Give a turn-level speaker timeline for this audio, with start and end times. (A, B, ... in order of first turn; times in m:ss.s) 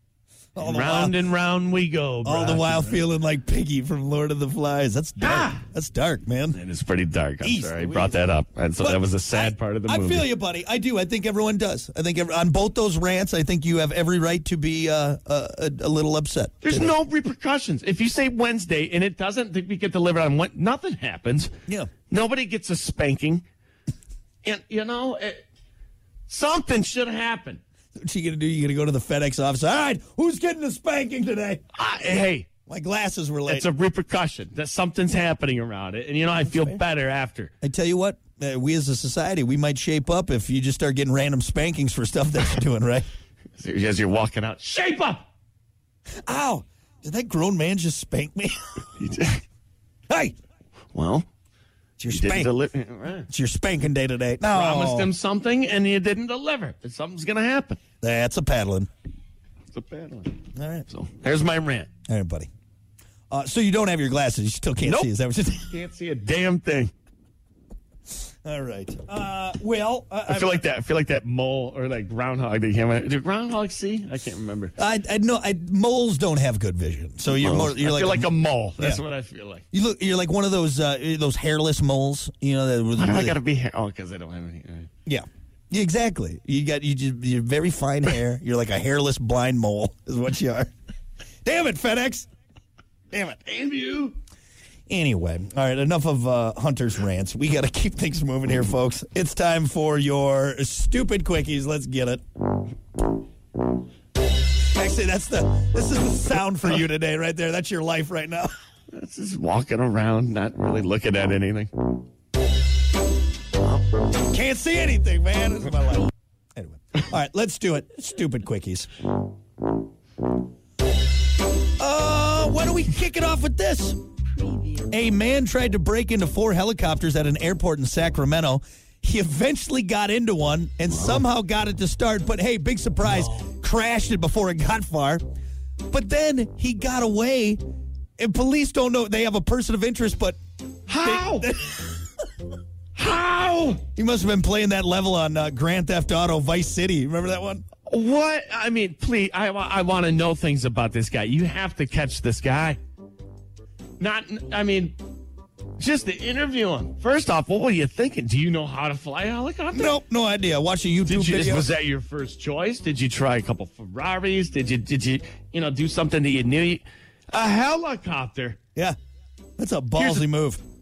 0:00.6-0:01.2 A
0:00.6-0:03.0 B
0:02.2-0:06.6 A
0:05.2-0:05.6 B
0:06.5-0:10.3 B
0:07.4-0:08.2 A
0:08.8-0:16.9 A
0:16.6-0:21.5 B
0:22.0-0:23.4 B
0:24.4-0:25.4 B
0:26.3-0:27.6 B
0:28.0-0:31.6 A
0:31.7-0:32.5 B
0:32.7-0:33.7 A
0:33.5-0:37.5 B
0:36.5-0:36.8 A
0:37.6-0:43.1 A
0:43.6-0:45.2 B
0:46.2-0:48.6 A
0:49.0-0:49.4 B
0:50.1-0:50.3 A
0:50.9-0:51.3 B
0:52.0-0:52.5 A
0:52.1-0:53.3 B
0:53.3-0:55.1 A
0:54.5-0:57.8 B
0:58.0-0:58.9 A
0:59.7-1:01.9 B
1:00.5-1:00.8 A
1:02.0-1:02.5 A
1:03.3-1:05.7 A
1:04.8-1:05.1 B
1:05.7-1:06.9 B
1:08.4-1:10.6 A
1:10.3-1:14.7 B
1:14.8-1:19.0 A
1:17.4-1:19.6 B
1:19.7-1:23.4 A
1:23.0-1:24.9 B
1:25.0-1:30.7 A
1:31.4-1:32.3 A
1:33.1-1:34.2 B
1:34.9-1:42.2 A
1:44.7-1:48.5 A
1:48.9-1:51.7 B
1:54.1-1:58.9 A
2:01.8-2:04.0 A
2:04.9-2:15.2 A
2:15.9-2:17.6 A
2:18.2-2:20.4 A
2:20.9-2:21.5 B
2:21.0-2:21.9 A
2:23.0-2:23.8 B
2:23.9-2:27.6 A
2:27.9-2:32.8 B
2:34.0-2:35.0 B
2:35.8-2:40.0 B
2:39.7-2:41.6 A
2:41.0-2:48.6 B
2:49.6-2:50.6 A
2:50.0-2:50.3 B